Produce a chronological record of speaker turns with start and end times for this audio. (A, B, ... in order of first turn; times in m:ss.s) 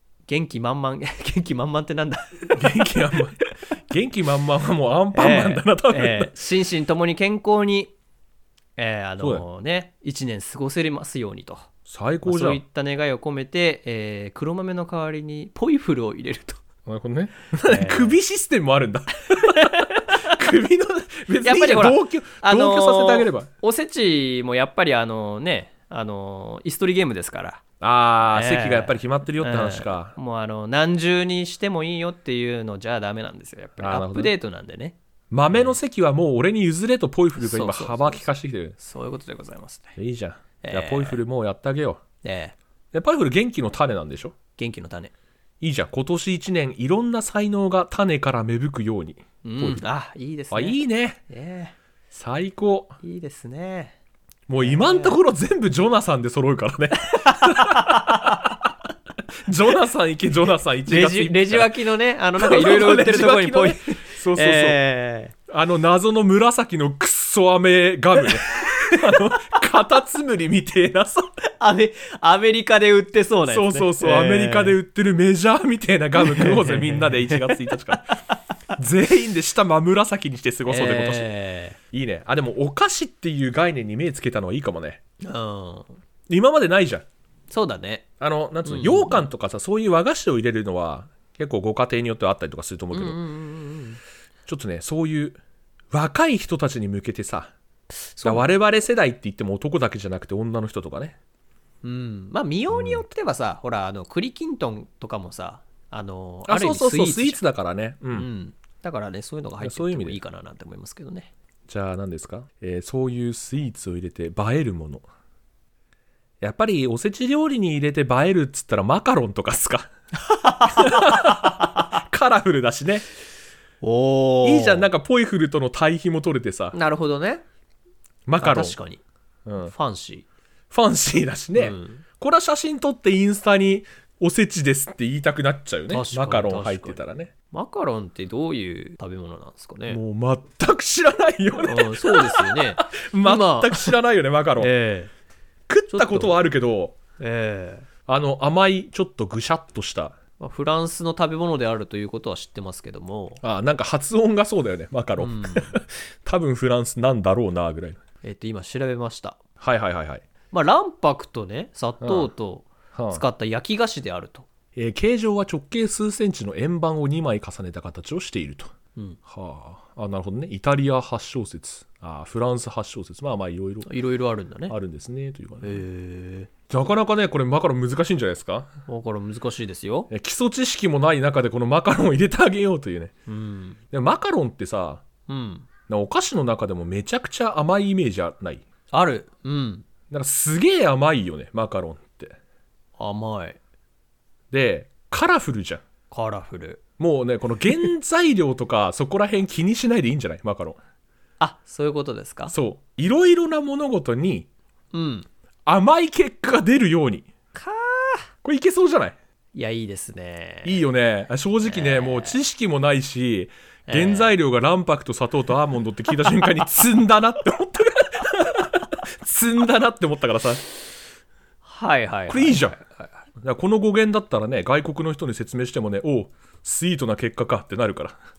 0:00.3-0:02.8 A
0:02.5-0:06.3 B
0:05.1-0:07.9 A
0:08.8-0:11.7 A
0:11.9-0:12.6 B
0:12.2-0:16.6 A
0:16.8-0:23.5 B
0:17.7-0:18.2 A
0:19.4-0:20.4 A
0:21.4-0:27.6 A
0:27.8-0:30.1 B
0:28.3-0:35.0 A
0:33.8-0:34.3 B
0:35.3-0:38.8 B
0:35.5-0:35.8 A
0:37.4-0:38.2 A
0:38.8-0:40.0 A
0:40.0-0:42.0 B
0:40.6-0:41.2 A
0:42.2-0:42.5 A
0:42.9-0:44.4 B
0:44.6-0:45.1 A
0:45.6-0:49.8 B
0:49.4-0:51.8 A
0:50.5-0:51.2 B
0:52.1-0:52.9 B
0:53.0-0:54.0 A
0:54.5-0:58.5 B
0:54.6-0:55.2 A
0:57.0-0:58.6 A
0:59.4-1:01.7 B
1:00.8-1:05.3 A
1:02.4-1:04.8 B
1:05.5-1:11.3 B
1:08.2-1:09.3 A
1:11.6-1:14.8 A
1:13.5-1:18.2 B
1:16.2-1:18.0 A
1:18.8-1:21.3 B
1:20.7-1:21.8 A
1:21.9-1:25.0 B
1:25.2-1:26.0 A
1:26.3-1:27.0 B
1:27.5-1:28.1 A
1:28.2-1:33.2 B
1:28.6-1:29.2 A
1:32.9-1:34.0 A
1:34.5-1:35.4 B
1:35.9-1:37.5 B
1:38.1-1:38.5 A
1:38.2-1:41.2 B
1:41.8-1:47.4 A
1:42.7-1:43.0 B
1:46.4-1:48.3 B
1:48.1-1:51.3 A
1:49.6-1:50.2 B
1:51.7-1:55.0 B
1:56.4-1:59.9 B
2:00.2-2:01.7 A
2:00.7-2:03.1 B
2:03.8-2:04.9 A
2:04.4-2:06.8 B
2:06.7-2:07.4 A
2:08.3-2:08.8 B
2:08.4-2:09.0 A
2:09.4-2:09.7 B
2:09.6-2:10.2 A
2:10.7-2:17.3 B
2:11.6-2:12.0 A
2:15.9-2:20.0 A
2:19.9-2:24.7 B
2:21.6-2:24.0 A
2:24.6-2:25.1 A
2:25.7-2:27.0 B
2:25.9-2:26.4 A
2:27.2-2:27.9 A
2:28.1-2:30.2 B
2:30.4-2:33.4 A
2:33.4-2:38.0 B
2:35.2-2:35.8 A
2:38.2-2:39.4 A
2:39.6-2:40.2 B
2:40.5-2:44.5 A
2:42.0-2:42.3 B
2:42.9-2:43.2 B
2:44.8-2:48.7 B
2:49.2-2:53.9 B
2:53.8-2:54.7 A
2:54.7-2:55.8 B
2:55.6-2:56.5 A
2:56.7-2:58.7 B
2:58.9-3:00.1 A
3:00.1-3:03.1 B
3:03.3-3:03.8 A
3:03.9-3:05.0 B
3:05.3-3:05.7 A
3:05.9-3:08.6 B
3:08.9-3:09.8 A
3:10.1-3:12.4 B
3:13.0-3:13.6 A
3:14.5-3:15.8 B
3:16.1-3:16.8 A
3:17.0-3:20.8 B
3:21.4-3:22.5 A
3:22.5-3:24.5 B
3:24.9-3:25.3 A
3:25.7-3:27.3 B
3:27.5-3:28.3 A
3:28.4-3:29.2 B
3:29.5-3:30.8 A
3:30.6-3:40.6 B
3:31.6-3:32.4 A
3:33.9-3:34.3 A
3:41.6-3:43.1 A
3:42.3-3:42.8 B
3:43.4-3:48.2 B